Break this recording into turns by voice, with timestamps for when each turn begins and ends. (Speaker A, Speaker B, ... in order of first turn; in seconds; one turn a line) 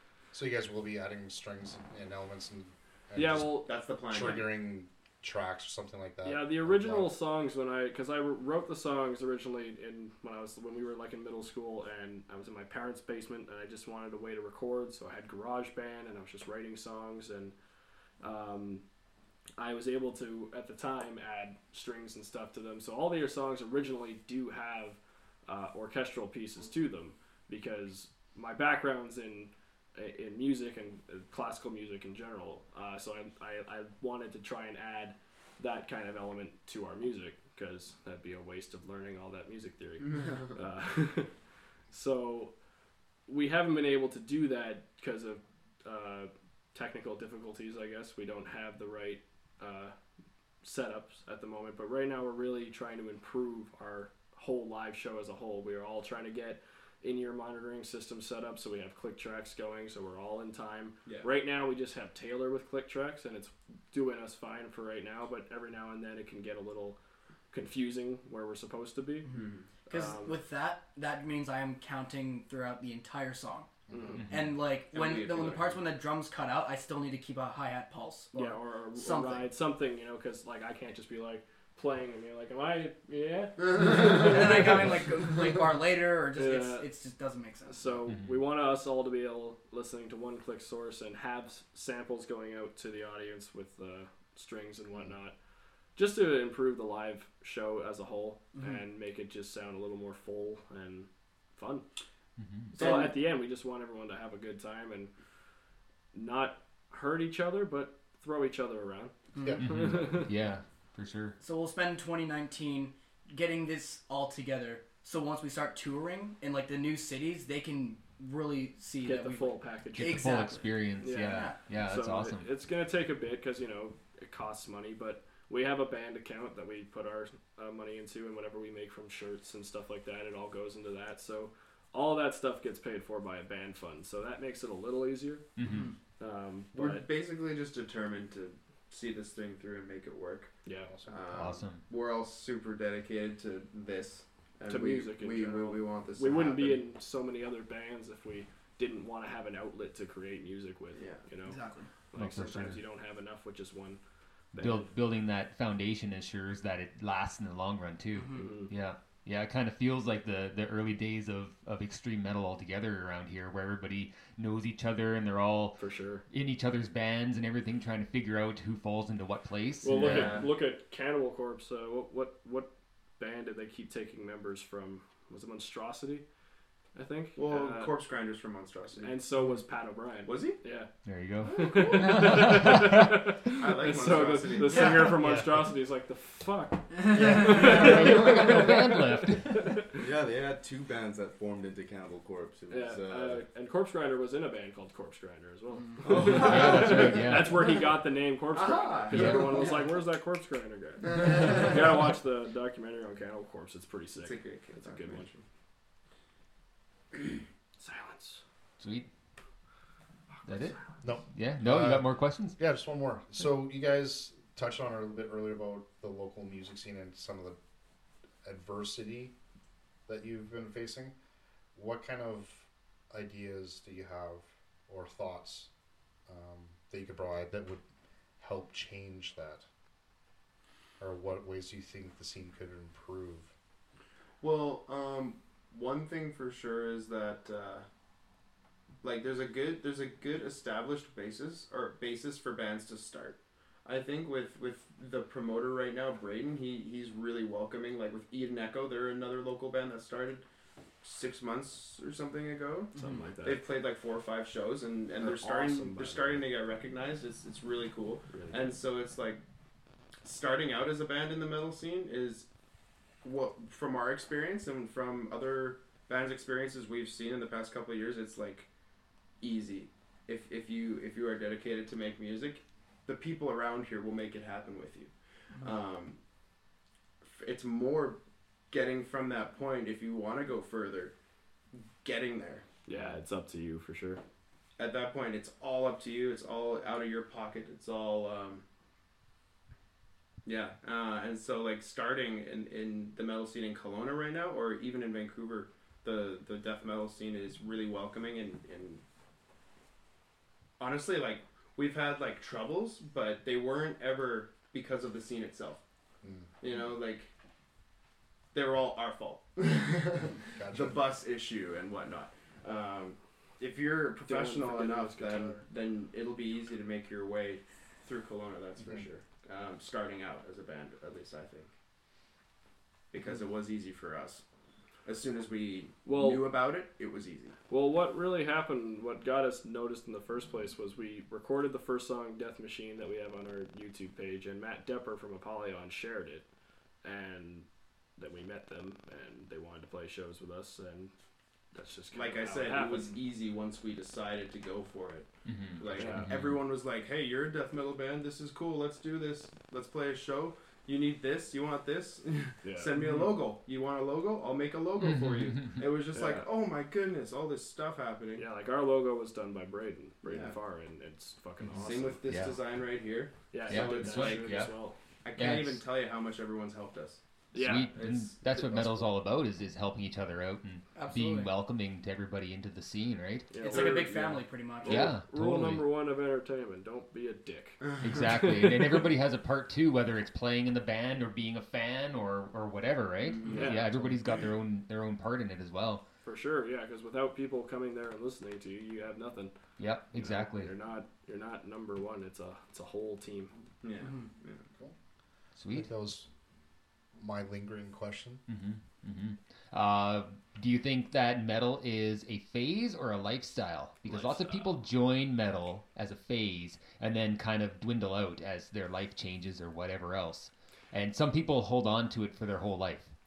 Speaker A: 0.3-7.1
Speaker B: 3.1-3.7
Speaker C: 3.7-4.5
Speaker B: 6.2-17.5
Speaker B: 18.2-18.8
Speaker B: 19.6-41.4
Speaker C: 40.0-40.5
Speaker B: 41.9-42.5
Speaker B: 43.3-49.9
Speaker B: 50.6-67.0
Speaker B: 67.5-69.3
Speaker D: 69.2-79.5
Speaker C: 69.3-69.7
Speaker B: 69.9-70.4
Speaker C: 73.9-74.2
Speaker B: 73.9-74.3
Speaker E: 74.2-74.6
Speaker C: 74.9-75.9
Speaker B: 78.3-84.9
Speaker D: 83.8-88.0
Speaker B: 86.4-86.9
Speaker B: 87.7-95.4
Speaker E: 88.1-88.4
Speaker B: 96.0-101.8
Speaker D: 98.5-98.8
Speaker E: 102.4-102.7
Speaker B: 102.7-105.1
Speaker D: 102.8-103.2
Speaker B: 106.1-110.3
Speaker D: 109.4-109.6
Speaker A: 109.4-110.0
Speaker E: 109.6-111.4
Speaker D: 111.4-121.6
Speaker B: 119.0-120.3
Speaker E: 120.0-122.5
Speaker B: 121.0-135.6
Speaker E: 135.6-135.9
Speaker D: 135.7-135.9
Speaker B: 136.2-137.0
Speaker C: 136.7-140.5
Speaker B: 140.7-140.9
Speaker A: 140.9-141.2
Speaker C: 141.1-146.8
Speaker E: 141.3-141.8
Speaker B: 144.7-151.6
Speaker C: 150.9-151.3
Speaker D: 151.5-151.9
Speaker B: 152.1-154.0
Speaker E: 152.2-152.8
Speaker B: 154.5-154.9
Speaker E: 154.5-170.4
Speaker D: 158.2-158.7
Speaker B: 158.3-158.7
Speaker B: 165.8-166.2
Speaker B: 169.8-176.2
Speaker C: 169.9-170.5
Speaker B: 176.9-177.9
Speaker C: 177.4-179.2
Speaker B: 179.0-180.9
Speaker C: 180.3-180.6
Speaker E: 181.1-183.1
Speaker B: 181.4-189.9
Speaker C: 183.5-185.1
Speaker D: 184.7-185.1
Speaker E: 185.2-185.6
Speaker D: 187.0-188.2
Speaker E: 187.2-189.7
Speaker F: 190.0-193.4
Speaker B: 192.7-205.4
Speaker E: 196.1-197.6
Speaker C: 198.5-199.8
Speaker E: 199.1-199.5
Speaker C: 201.2-201.7
Speaker C: 204.2-205.3
Speaker B: 207.8-208.4
Speaker E: 208.8-209.1
Speaker E: 210.5-212.6
Speaker A: 211.0-217.6
Speaker A: 218.4-219.3
Speaker A: 220.1-221.2
Speaker A: 221.8-225.7
Speaker A: 226.3-227.8
Speaker A: 228.4-229.7
Speaker A: 231.0-233.5
Speaker C: 234.4-237.9
Speaker C: 239.0-250.4
Speaker C: 251.0-259.4
Speaker D: 252.9-253.3
Speaker B: 253.0-253.6
Speaker B: 255.2-256.4
Speaker B: 258.3-258.6
Speaker C: 260.2-262.5
Speaker C: 263.2-268.7
Speaker C: 269.4-276.2
Speaker C: 277.2-278.2
Speaker C: 278.7-281.1
Speaker C: 281.7-282.6
Speaker B: 282.9-284.2
Speaker C: 284.8-288.6
Speaker C: 290.4-299.0
Speaker C: 300.8-305.8
Speaker A: 306.2-306.5
Speaker C: 306.6-307.3
Speaker C: 308.5-321.7
Speaker A: 310.5-311.0
Speaker B: 314.2-315.6
Speaker C: 323.1-324.4
Speaker C: 325.1-327.6
Speaker B: 326.1-326.4
Speaker B: 327.7-336.5
Speaker B: 337.0-341.1
Speaker B: 341.7-343.2
Speaker C: 342.1-358.5
Speaker E: 345.4-346.6
Speaker B: 345.9-346.4
Speaker B: 352.6-353.2
Speaker E: 355.0-355.9
Speaker B: 356.1-356.5
Speaker B: 358.4-362.2
Speaker C: 360.2-360.6
Speaker E: 361.6-362.6
Speaker C: 361.8-364.7
Speaker B: 363.5-365.0
Speaker E: 363.7-364.7
Speaker C: 365.2-367.2
Speaker E: 365.3-365.8
Speaker B: 367.5-368.0
Speaker E: 367.6-373.5
Speaker C: 367.9-368.9
Speaker D: 370.9-371.5
Speaker B: 373.5-379.0
Speaker C: 373.6-375.1
Speaker D: 373.6-375.1
Speaker E: 374.9-375.9
Speaker E: 378.0-386.0
Speaker C: 383.2-384.1
Speaker B: 383.4-384.1
Speaker B: 386.2-389.5
Speaker E: 389.8-390.7
Speaker B: 390.1-393.5
Speaker C: 393.8-394.6
Speaker E: 395.6-395.9
Speaker A: 395.7-396.3
Speaker A: 397.2-398.4
Speaker E: 398.5-413.1
Speaker B: 404.1-404.7